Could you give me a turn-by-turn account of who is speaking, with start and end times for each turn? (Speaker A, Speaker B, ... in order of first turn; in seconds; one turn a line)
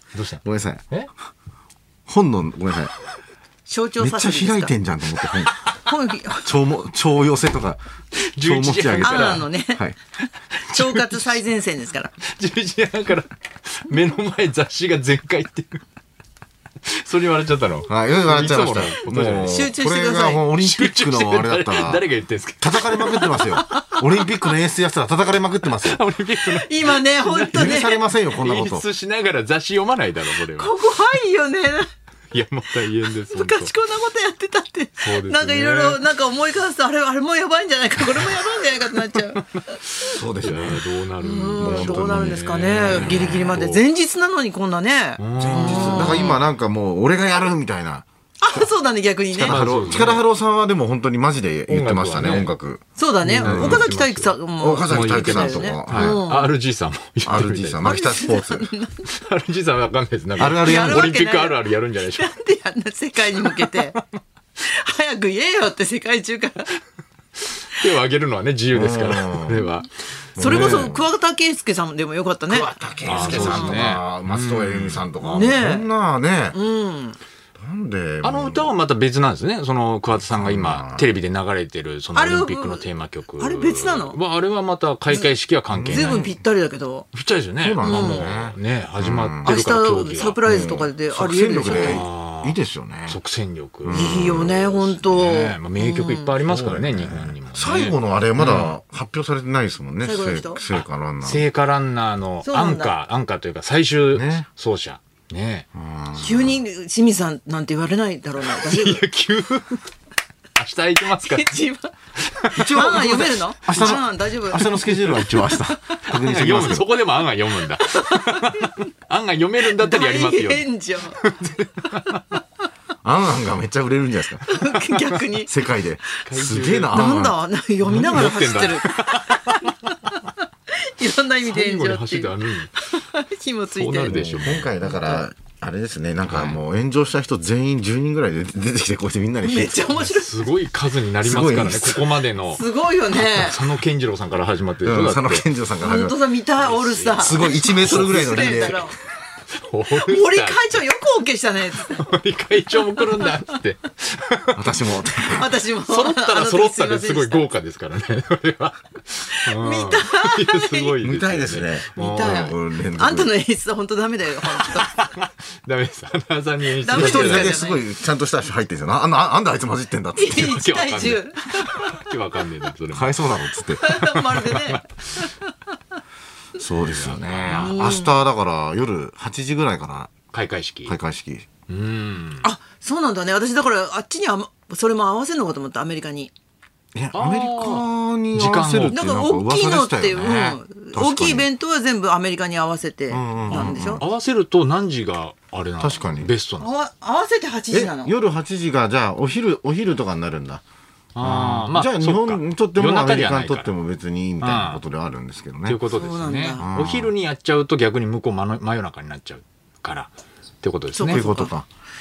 Speaker A: 0.1-1.1
Speaker B: 0.4-0.8
Speaker B: 2.1-2.9
Speaker C: 3.7-4.7
Speaker B: 4.0-5.6
Speaker C: 5.8-6.5
Speaker B: 6.4-7.8
Speaker A: 8.1-9.5
Speaker B: 8.4-10.0
Speaker C: 9.0-9.9
Speaker C: 10.6-12.1
Speaker A: 10.7-11.4
Speaker A: 12.3-15.8
Speaker A: 16.9-19.6
Speaker B: 17.9-22.1
Speaker C: 19.4-20.4
Speaker A: 20.6-23.6
Speaker B: 22.6-26.0
Speaker A: 25.7-30.8
Speaker C: 26.4-28.0
Speaker B: 27.5-28.8
Speaker C: 30.4-31.9
Speaker A: 32.3-33.7
Speaker C: 33.3-39.5
Speaker A: 35.0-36.0
Speaker A: 40.0-43.8
Speaker B: 40.0-40.8
Speaker C: 41.2-46.4
Speaker B: 41.6-43.5
Speaker A: 45.2-46.4
Speaker B: 45.4-48.7
Speaker C: 48.4-49.6
Speaker B: 49.3-52.8
Speaker A: 49.4-50.2
Speaker A: 51.7-52.5
Speaker C: 53.0-56.5
Speaker A: 53.2-54.4
Speaker B: 53.4-53.9
Speaker B: 54.6-56.2
Speaker A: 54.9-58.1
Speaker B: 57.2-58.7
Speaker C: 57.8-59.0
Speaker A: 59.0-62.3
Speaker B: 60.4-61.1
Speaker C: 60.6-64.0
Speaker A: 63.4-64.0
Speaker C: 64.6-66.7
Speaker A: 67.6-70.9
Speaker B: 68.7-69.7
Speaker B: 70.4-71.1
Speaker C: 70.4-73.9
Speaker B: 72.5-76.6
Speaker A: 73.1-75.1
Speaker C: 75.2-75.9
Speaker C: 76.5-77.2
Speaker B: 77.6-78.7
Speaker A: 78.2-86.3
Speaker B: 80.2-81.1
Speaker C: 82.1-82.8
Speaker C: 83.4-84.2
Speaker B: 85.7-86.2
Speaker C: 85.9-87.1
Speaker A: 87.1-90.4
Speaker B: 87.6-89.6
Speaker C: 87.8-88.2
Speaker C: 89.5-92.0
Speaker B: 90.5-93.2
Speaker A: 91.6-92.6
Speaker A: 93.1-98.7
Speaker B: 93.8-94.6
Speaker C: 93.9-96.3
Speaker B: 96.4-101.5
Speaker C: 100.0-100.6
Speaker A: 100.7-105.7
Speaker C: 102.4-102.9
Speaker B: 104.1-104.5
Speaker B: 105.7-106.6
Speaker C: 106.1-109.1
Speaker A: 108.4-109.8
Speaker A: 110.6-111.6
Speaker C: 111.2-111.9
Speaker A: 112.3-112.7
Speaker B: 112.5-116.9
Speaker C: 112.6-115.2
Speaker A: 114.8-115.5
Speaker A: 116.1-120.7
Speaker C: 117.8-118.8
Speaker C: 119.7-121.2
Speaker A: 121.2-122.2
Speaker C: 121.9-122.4
Speaker B: 123.0-124.5
Speaker C: 124.4-125.5
Speaker B: 125.4-127.3
Speaker A: 126.2-127.2
Speaker C: 126.9-130.1
Speaker A: 127.8-129.9
Speaker C: 130.8-135.3
Speaker A: 131.4-132.7
Speaker A: 133.7-134.7
Speaker B: 134.1-139.9
Speaker A: 136.2-136.6
Speaker C: 139.4-140.4
Speaker A: 139.9-145.4
Speaker B: 141.2-142.1
Speaker C: 142.5-143.6
Speaker B: 144.8-146.2
Speaker C: 145.8-148.9
Speaker A: 146.6-148.9
Speaker B: 147.2-148.9
Speaker A: 149.7-150.7
Speaker C: 149.9-152.2
Speaker A: 151.8-154.8
Speaker C: 152.7-153.6
Speaker B: 154.6-155.5
Speaker C: 155.2-157.5
Speaker A: 155.9-162.5
Speaker C: 159.3-161.0
Speaker B: 161.0-163.3
Speaker C: 162.0-164.9
Speaker A: 164.5-167.6
Speaker C: 166.8-167.8
Speaker B: 166.9-170.5
Speaker C: 170.2-172.0
Speaker A: 170.3-174.8
Speaker B: 172.9-173.8
Speaker C: 173.8-175.5
Speaker B: 176.6-180.2
Speaker A: 176.8-177.8
Speaker C: 177.5-178.1
Speaker A: 180.3-181.0
Speaker B: 180.9-181.5
Speaker A: 181.7-182.4
Speaker C: 182.4-186.3
Speaker B: 186.9-191.5
Speaker A: 187.1-189.0
Speaker C: 188.9-194.1
Speaker B: 193.1-194.1
Speaker A: 193.5-196.7
Speaker B: 195.8-196.3
Speaker C: 196.6-198.1
Speaker B: 197.7-200.6
Speaker A: 201.2-203.7
Speaker B: 201.2-205.8
Speaker A: 204.4-204.8
Speaker A: 205.7-211.2
Speaker C: 205.9-206.6
Speaker B: 206.6-207.1
Speaker C: 210.9-211.5
Speaker B: 211.1-211.7